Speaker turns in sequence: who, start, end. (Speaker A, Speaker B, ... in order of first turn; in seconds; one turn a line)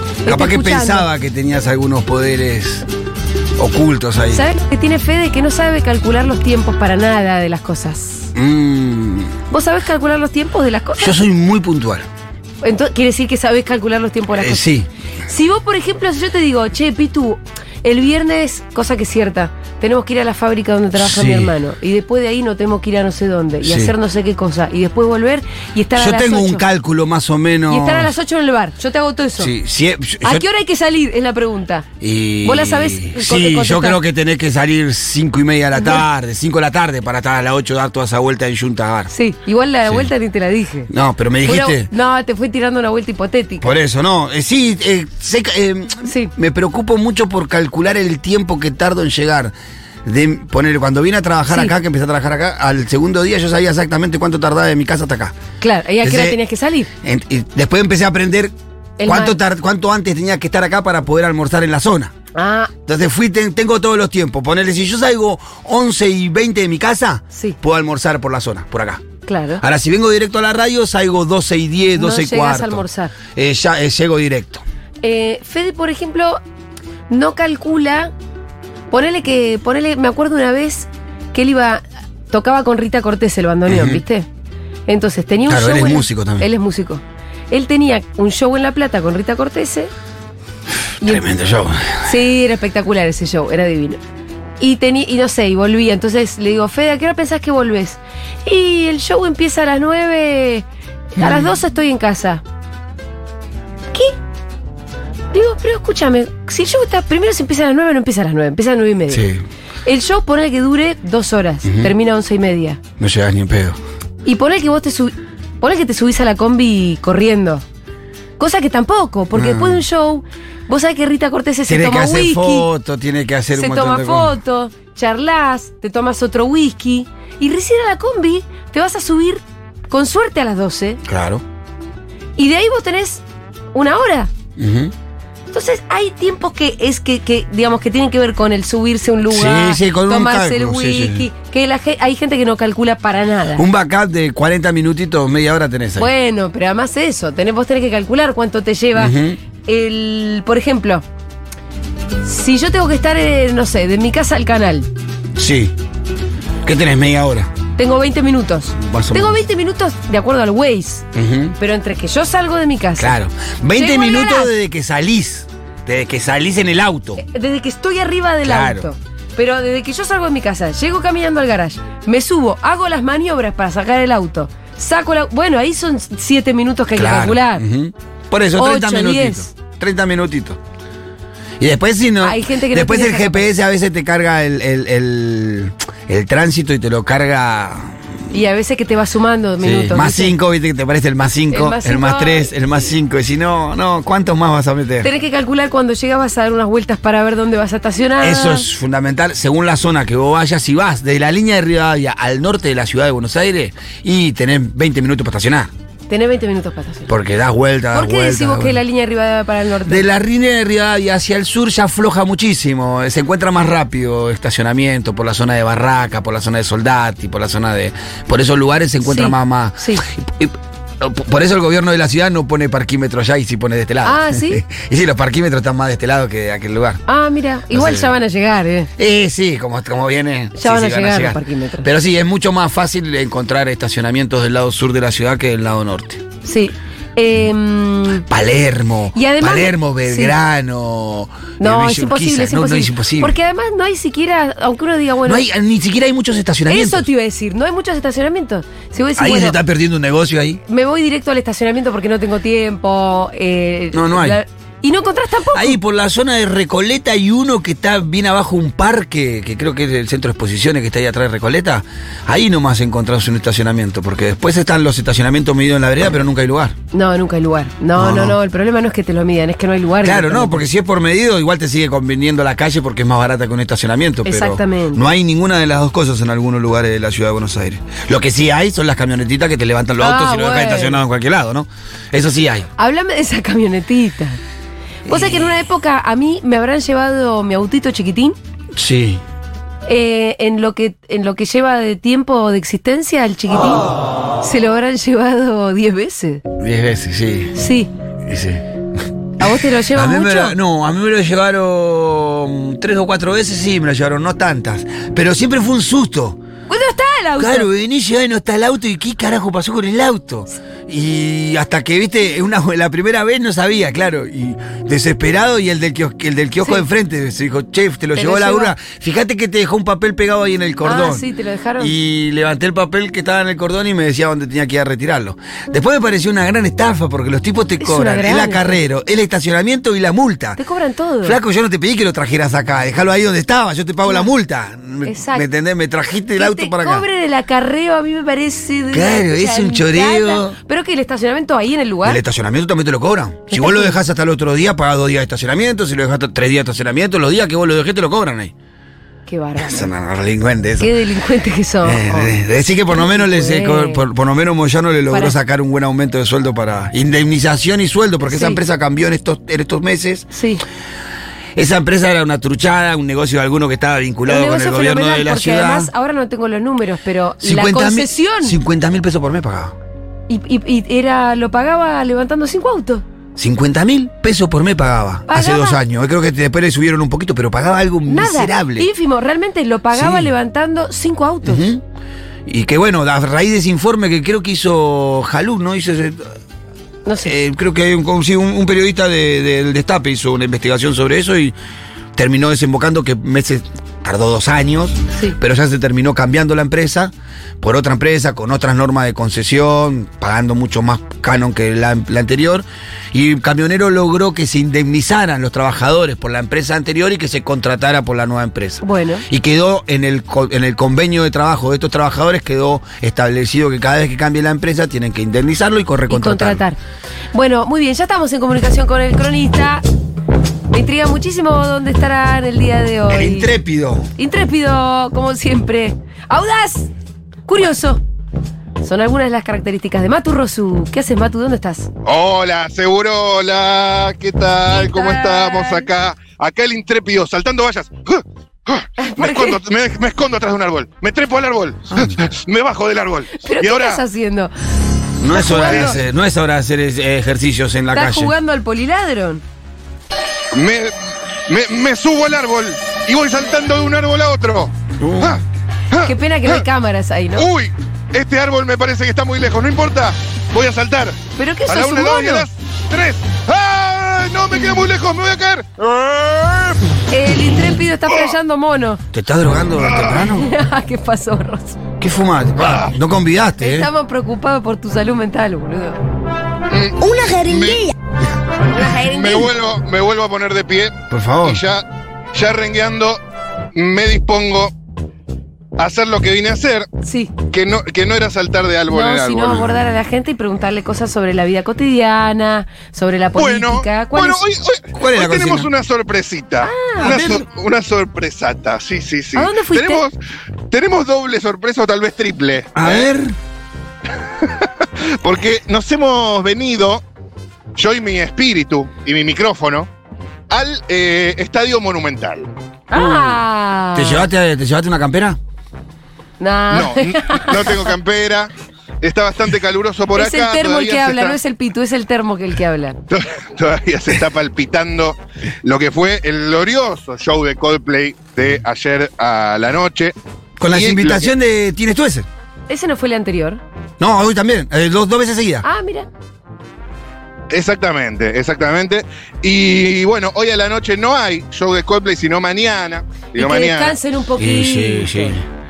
Speaker A: 0.2-1.1
Speaker B: 0.2-2.9
Speaker B: 3.6-4.5
Speaker A: 4.3-8.3
Speaker B: 8.3-9.4
Speaker A: 9.5-11.2
Speaker B: 11.0-12.1
Speaker A: 12.6-14.7
Speaker B: 14.3-14.9
Speaker A: 15.3-26.6
Speaker B: 20.9-21.6
Speaker B: 23.6-23.9
Speaker B: 26.0-28.1
Speaker A: 27.7-29.5
Speaker B: 29.4-30.5
Speaker A: 30.2-31.9
Speaker B: 32.0-39.1
Speaker A: 32.4-34.0
Speaker A: 35.8-36.0
Speaker A: 39.1-40.9
Speaker B: 40.9-41.9
Speaker A: 41.5-43.7
Speaker B: 43.6-49.5
Speaker A: 46.0-46.3
Speaker B: 50.0-55.4
Speaker A: 55.6-56.9
Speaker B: 56.0-56.4
Speaker B: 57.0-58.5
Speaker A: 59.0-59.4
Speaker B: 59.0-62.1
Speaker A: 62.4-62.7
Speaker B: 62.9-69.0
Speaker A: 67.3-67.6
Speaker A: 69.3-69.6
Speaker B: 69.6-74.6
Speaker A: 72.0-73.2
Speaker A: 75.0-76.4
Speaker A: 77.1-78.1
Speaker A: 78.9-84.3
Speaker B: 83.7-84.0
Speaker A: 84.9-89.9
Speaker B: 85.5-86.5
Speaker B: 91.0-92.2
Speaker A: 91.0-91.3
Speaker A: 92.0-94.0
Speaker A: 94.6-102.4
Speaker B: 101.2-101.5
Speaker A: 105.3-109.2
Speaker B: 109.1-109.4
Speaker A: 109.8-112.8
Speaker B: 111.7-111.9
Speaker B: 113.0-113.8
Speaker A: 114.2-117.6
Speaker A: 118.4-122.7
Speaker B: 119.3-119.8
Speaker B: 121.7-124.4
Speaker A: 123.5-131.0
Speaker B: 131.1-131.4
Speaker A: 132.4-133.2
Speaker A: 133.7-134.3
Speaker B: 134.6-134.9
Speaker A: 135.5-143.6
Speaker B: 139.3-141.3
Speaker B: 143.6-146.1
Speaker A: 146.0-151.0
Speaker B: 148.9-149.4
Speaker A: 152.2-154.9
Speaker B: 155.3-155.7
Speaker B: 156.6-157.5
Speaker A: 157.8-161.1
Speaker B: 158.8-159.4
Speaker B: 161.1-161.6
Speaker A: 161.6-163.2
Speaker B: 163.0-167.2
Speaker A: 163.7-164.5
Speaker A: 167.2-177.6
Speaker B: 168.4-168.9
Speaker B: 176.9-180.6
Speaker A: 178.6-179.5
Speaker B: 181.6-188.0
Speaker A: 182.2-183.5
Speaker A: 188.3-190.3
Speaker B: 189.6-195.1
Speaker A: 191.5-192.5
Speaker A: 195.0-198.7
Speaker B: 198.2-205.7
Speaker A: 206.1-207.1
Speaker B: 207.1-208.8
Speaker A: 207.9-210.1
Speaker B: 209.8-227.0
Speaker A: 219.0-220.0
Speaker A: 224.1-224.7
Speaker A: 227.1-228.9
Speaker B: 227.7-228.1
Speaker B: 229.0-236.2
Speaker A: 230.6-231.9
Speaker A: 236.4-238.3
Speaker B: 238.3-243.3
Speaker A: 239.2-240.3
Speaker A: 241.6-245.4
Speaker B: 245.2-247.1
Speaker A: 246.7-249.6
Speaker B: 249.2-250.6
Speaker A: 250.7-255.8
Speaker B: 253.9-254.4
Speaker B: 255.5-266.8
Speaker A: 266.9-270.6
Speaker B: 268.0-268.4
Speaker B: 270.0-282.7
Speaker A: 274.2-275.0
Speaker A: 280.0-281.0
Speaker A: 282.8-284.4
Speaker B: 285.1-285.5
Speaker A: 285.1-288.4
Speaker B: 288.7-289.2
Speaker A: 289.9-293.9
Speaker A: 294.4-296.4
Speaker B: 296.6-297.6
Speaker A: 297.6-297.9
Speaker B: 298.2-298.6
Speaker A: 299.4-300.6
Speaker B: 299.4-306.4
Speaker A: 306.7-307.7
Speaker B: 307.4-321.3
Speaker A: 318.1-318.7
Speaker A: 320.8-321.9
Speaker B: 321.8-330.6
Speaker A: 327.8-328.8
Speaker A: 330.6-331.4
Speaker B: 331.2-337.1
Speaker A: 335.1-335.5
Speaker A: 336.4-342.2
Speaker B: 338.9-340.6
Speaker B: 342.0-348.5
Speaker A: 343.5-344.0
Speaker A: 349.3-349.9
Speaker B: 349.6-350.9
Speaker A: 350.8-352.4
Speaker B: 351.8-360.3
Speaker A: 352.9-354.0
Speaker A: 355.1-355.4
Speaker A: 358.2-358.6
Speaker A: 360.3-360.6
Speaker B: 361.6-365.9
Speaker A: 364.3-368.6
Speaker B: 367.4-369.8
Speaker A: 370.3-373.0
Speaker B: 373.4-378.9
Speaker A: 375.3-375.8
Speaker A: 378.1-381.6
Speaker B: 379.9-380.3
Speaker B: 381.4-381.8
Speaker B: 382.5-386.3
Speaker A: 387.1-387.4
Speaker B: 387.2-391.6
Speaker B: 392.1-416.6
Speaker A: 408.8-409.3
Speaker A: 416.1-416.8
Speaker A: 417.3-419.8
Speaker A: 420.7-423.5
Speaker B: 423.1-424.1
Speaker A: 424.2-426.9
Speaker A: 427.5-428.0
Speaker A: 428.8-431.9
Speaker C: 432.1-444.0
Speaker A: 434.7-435.9
Speaker A: 439.0-439.6
Speaker B: 441.9-442.2
Speaker A: 443.4-444.5
Speaker B: 445.2-448.3
Speaker A: 445.3-446.0
Speaker C: 445.6-446.0
Speaker A: 447.9-449.4
Speaker C: 450.5-456.6
Speaker B: 455.0-455.4
Speaker A: 456.1-457.5
Speaker C: 457.4-466.8
Speaker A: 461.4-462.5
Speaker A: 467.1-469.0
Speaker B: 469.1-470.5
Speaker C: 469.8-470.3
Speaker A: 470.3-471.8
Speaker B: 472.0-473.9
Speaker C: 472.6-472.9
Speaker A: 473.6-476.0
Speaker C: 476.7-477.9
Speaker A: 478.7-479.5
Speaker C: 478.8-483.2
Speaker B: 481.1-481.6
Speaker C: 483.7-484.7
Speaker C: 485.8-486.9
Speaker A: 487.0-487.3
Speaker C: 487.5-489.7
Speaker A: 488.9-494.4
Speaker C: 493.4-500.2
Speaker B: 494.9-495.7
Speaker A: 496.6-497.1
Speaker B: 497.0-497.5
Speaker A: 499.3-500.0
Speaker C: 500.7-503.1
Speaker B: 502.8-503.4
Speaker C: 504.2-507.0
Speaker C: 507.8-509.9
Speaker C: 510.5-512.5
Speaker A: 512.9-514.3
Speaker B: 512.9-513.4
Speaker B: 513.9-515.4
Speaker A: 516.4-517.9
Speaker C: 516.7-521.4
Speaker A: 520.1-523.0
Speaker C: 523.1-530.1
Speaker B: 530.6-532.3
Speaker C: 530.7-531.3
Speaker A: 532.7-533.6
Speaker B: 534.0-535.6
Speaker A: 535.6-536.1
Speaker C: 537.5-544.0
Speaker A: 543.4-545.4
Speaker B: 544.4-545.5